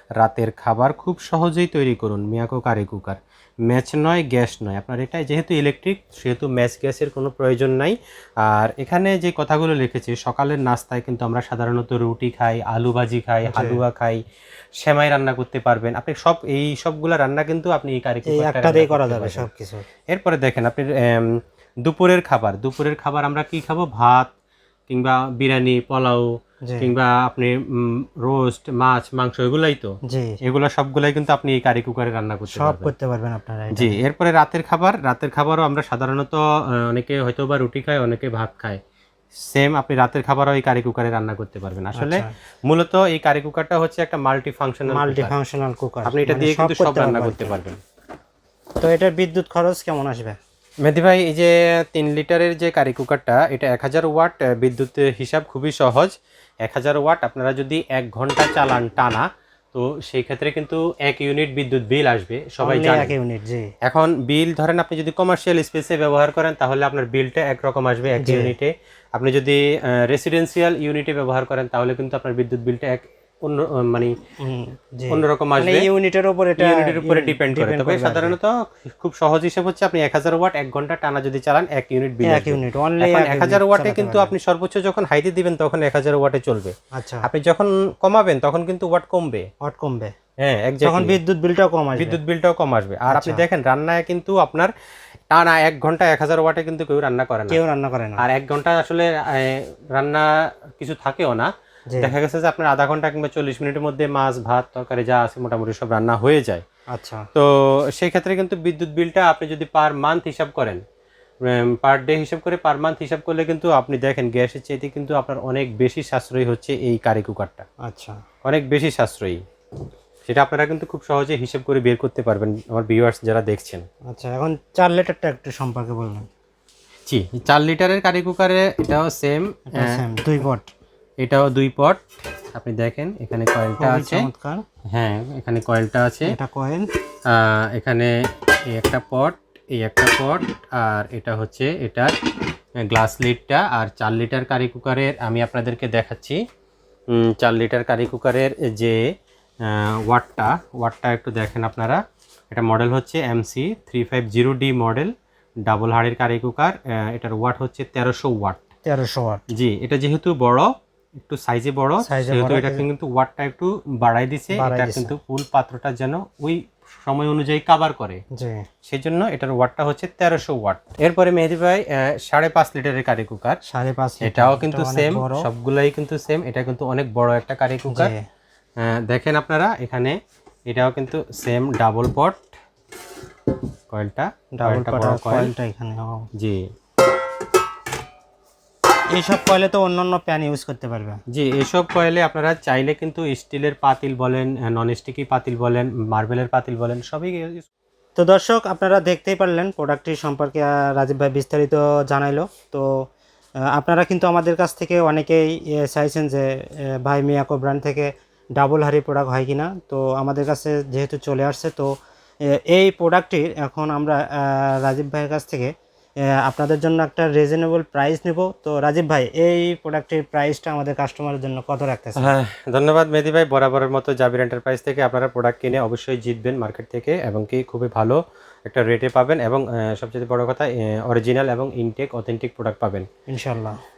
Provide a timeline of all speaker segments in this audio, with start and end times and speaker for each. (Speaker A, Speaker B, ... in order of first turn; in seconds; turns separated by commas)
Speaker A: 0.2-14.2, Speaker B: 13.5-13.8, Speaker A: 14.8-19.5, Speaker B: 18.3-19.9, Speaker A: 20.1-24.3, Speaker A: 24.9-32.9, Speaker B: 26.6-26.9, Speaker B: 30.1-30.4, Speaker B: 32.5-34.0, Speaker A: 33.7-38.8, Speaker A: 39.4-45.3, Speaker B: 42.0-42.3, Speaker B: 44.9-47.6, Speaker A: 46.0-47.8, Speaker B: 48.8-50.4, Speaker A: 50.8-56.1, Speaker A: 56.6-63.1, Speaker B: 62.6-63.7, Speaker A: 63.8-74.2, Speaker B: 68.2-68.5, Speaker B: 74.4-78.4, Speaker A: 75.1-75.9, Speaker A: 76.6-89.5, Speaker B: 82.2-84.3, Speaker B: 86.9-87.3, Speaker B: 89.6-90.1, Speaker A: 90.4-91.2, Speaker B: 90.8-92.2, Speaker A: 92.0-94.7, Speaker B: 93.1-93.4, Speaker A: 95.3-97.6, Speaker B: 97.5-98.2, Speaker A: 98.2-106.6, Speaker B: 106.9-107.3, Speaker A: 107.3-110.8, Speaker A: 111.5-117.7, Speaker B: 117.8-118.2, Speaker A: 118.4-119.4, Speaker A: 120.2-123.8, Speaker B: 124.1-126.3, Speaker A: 127.1-130.0, Speaker B: 129.7-130.7, Speaker A: 131.2-132.0, Speaker A: 132.5-134.3, Speaker B: 133.8-134.6, Speaker A: 134.9-136.3, Speaker B: 136.2-136.9, Speaker A: 137.2-142.1, Speaker A: 142.8-146.4, Speaker A: 147.1-149.1, Speaker A: 149.6-152.0, Speaker A: 152.5-155.1, Speaker A: 155.6-158.6, Speaker B: 158.8-159.4, Speaker A: 159.5-160.7, Speaker A: 161.2-168.2, Speaker B: 162.0-162.8, Speaker B: 164.5-165.1, Speaker B: 168.3-168.7, Speaker A: 168.8-173.6, Speaker B: 173.7-175.4, Speaker A: 174.2-178.1, Speaker B: 177.9-178.2, Speaker A: 178.8-180.2, Speaker A: 180.7-182.5, Speaker A: 183.9-185.5, Speaker B: 184.5-186.3, Speaker A: 186.4-186.7, Speaker B: 189.1-191.2, Speaker A: 191.3-197.7, Speaker B: 198.2-203.1, Speaker B: 203.7-211.9, Speaker B: 212.4-215.7, Speaker B: 216.3-222.3, Speaker A: 222.2-233.1, Speaker B: 233.3-233.8